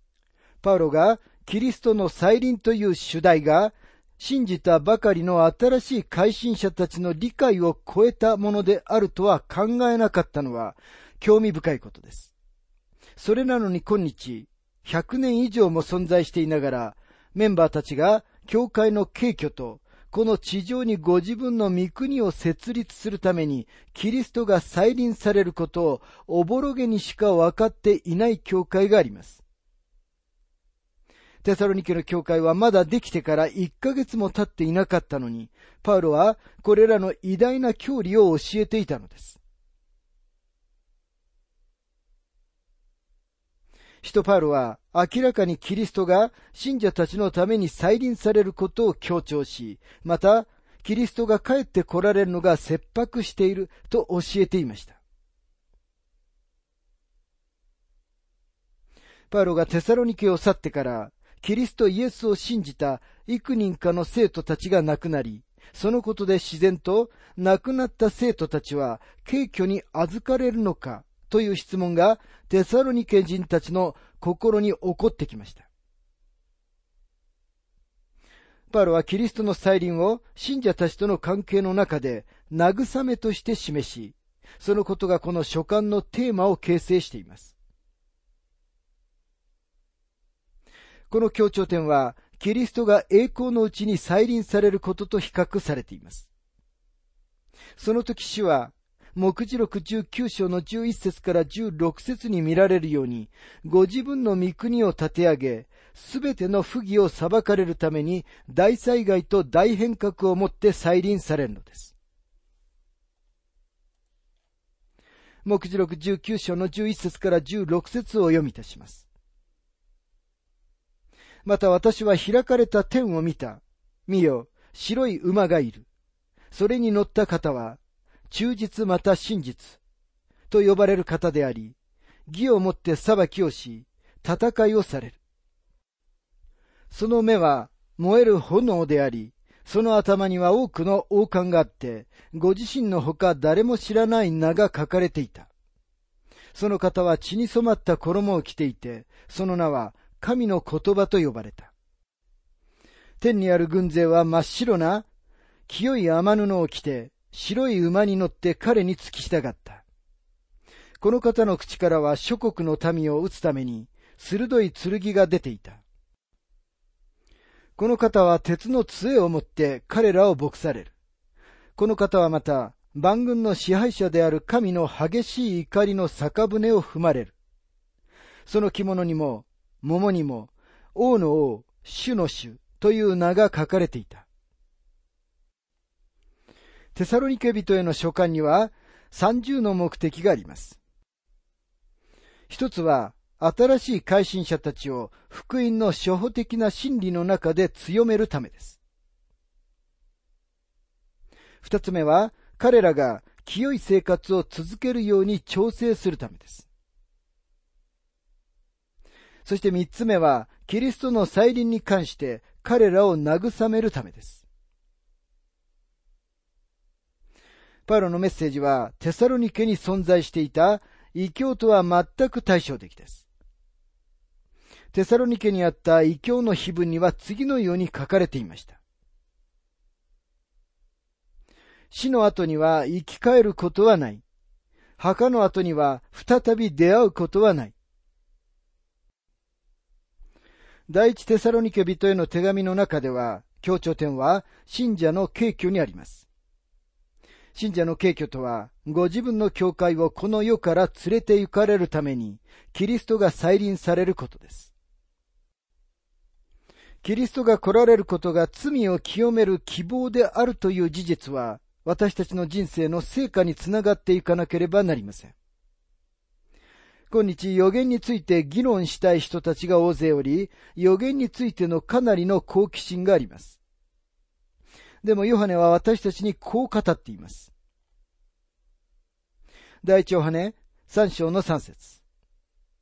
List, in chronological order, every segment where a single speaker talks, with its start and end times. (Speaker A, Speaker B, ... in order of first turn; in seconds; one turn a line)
Speaker A: 0.6-12.3
Speaker A: 13.2-29.4
Speaker A: 31.4-39.4
Speaker A: 44.0-55.0
Speaker A: 59.3-75.7
Speaker A: 78.7-87.5
Speaker A: 91.1-96.3
Speaker A: 97.8-111.9
Speaker A: 115.4-119.1
Speaker A: 121.4-125.9
Speaker A: 126.5-127.8
Speaker A: 128.3-129.8
Speaker A: 130.5-131.8
Speaker A: 132.3-135.2
Speaker A: 136.9-145.5
Speaker A: 146.6-151.7
Speaker A: 153.2-155.1
Speaker A: 155.7-159.8
Speaker A: 161.0-165.8
Speaker A: 167.8-170.9
Speaker A: 171.8-177.3
Speaker A: 178.5-184.3
Speaker A: 186.9-190.8
Speaker A: 192.5-198.8
Speaker A: 201.6-206.7
Speaker A: 209.4-214.4
Speaker A: 217.9-223.2
Speaker A: 224.9-228.8
Speaker A: 231.9-234.2
Speaker A: 235.0-237.7
Speaker A: 240.9-246.3
Speaker A: 247.5-254.7
Speaker A: 257.0-265.3
Speaker A: 267.1-273.6
Speaker A: 275.0-277.5
Speaker A: 279.8-282.0